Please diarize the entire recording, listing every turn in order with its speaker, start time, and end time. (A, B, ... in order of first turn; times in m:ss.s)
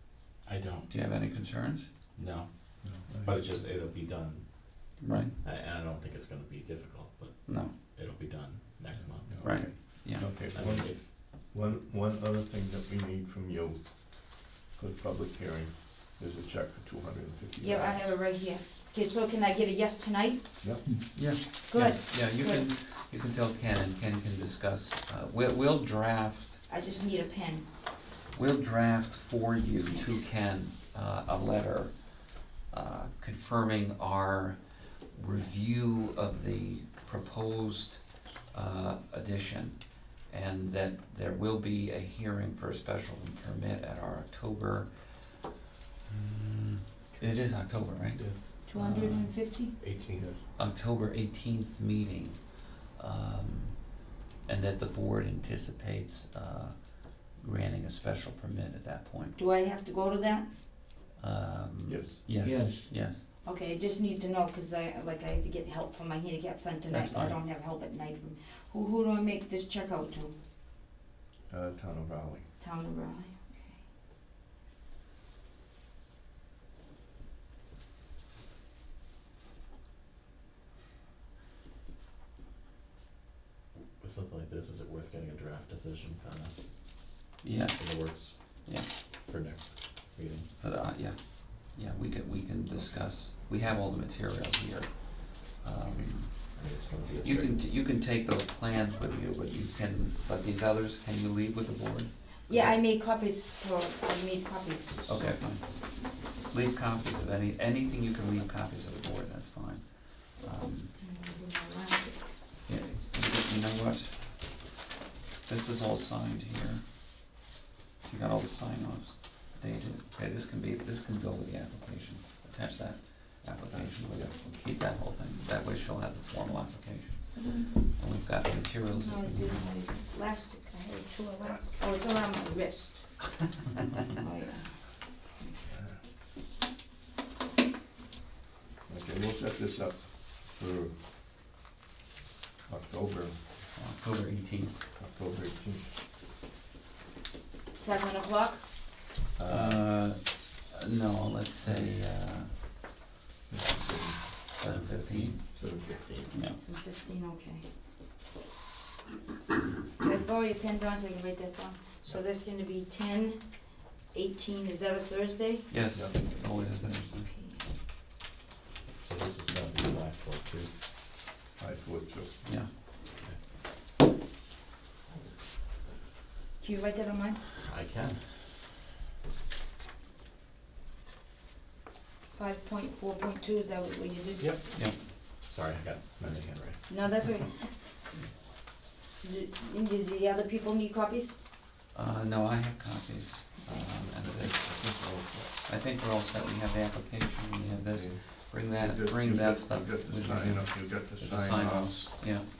0:00.4-0:00.9 A
0:00.9-0:01.9 B
0:02.2-0:11.1 A
0:02.8-0:03.4 C
0:05.0-0:05.3 B
0:07.4-0:07.7 B
0:08.9-0:18.1 C
0:09.4-0:10.2 B
0:17.6-0:20.4 D
0:20.6-0:21.0 C
0:21.1-0:26.6 B
0:21.6-0:22.7 D
0:26.7-0:27.6 D
0:28.3-0:45.1 B
0:29.9-0:30.3 D
0:46.1-0:49.5 B
0:48.1-0:48.5 A
0:48.7-0:49.8 D
0:49.8-0:50.4 A
0:50.6-0:59.4 B
0:59.4-1:00.5 D
1:01.2-1:03.2 B
1:01.8-1:02.8 C
1:03.4-1:10.3 D
1:06.9-1:07.4 B
1:11.5-1:12.5 C
1:12.6-1:13.8 D
1:24.0-1:26.5 A
1:27.4-1:28.9 B
1:27.8-1:30.5 A
1:30.6-1:36.5 B
1:36.5-1:37.6 A
1:37.2-1:42.7 B
1:42.5-1:45.3 D
1:45.0-1:50.9 B
1:51.0-1:52.3 D
1:52.6-1:54.5 B
1:55.4-1:56.8 B
1:58.0-2:09.6 B
2:03.7-2:04.3 C
2:07.4-2:07.7 D
2:08.9-2:13.4 D
2:14.1-2:15.6 D
2:15.7-2:16.0 C
2:18.9-2:20.9 C
2:22.7-2:23.3 C
2:23.8-2:24.8 B
2:25.0-2:25.9 C
2:27.7-2:28.6 D
2:29.4-2:29.8 C
2:29.5-2:32.5 B
2:31.6-2:31.9 C
2:33.5-2:34.4 C
2:34.6-2:35.4 B
2:34.6-2:36.3 A
2:35.5-2:36.1 C
2:36.3-2:36.6 B
2:36.6-2:37.6 D
2:40.0-2:47.6 D
2:45.7-2:47.3 B
2:49.0-2:50.7 A
2:51.6-2:52.3 C
2:52.4-2:52.7 B
2:56.6-2:57.4 D
2:57.6-2:58.2 A
3:02.3-3:04.5 D
3:04.4-3:04.8 A
3:05.4-3:06.8 A
3:06.9-3:07.8 D
3:09.2-3:11.3 D
3:11.9-3:14.7 B
3:14.0-3:15.5 C
3:15.6-3:22.5 B
3:17.7-3:22.1 C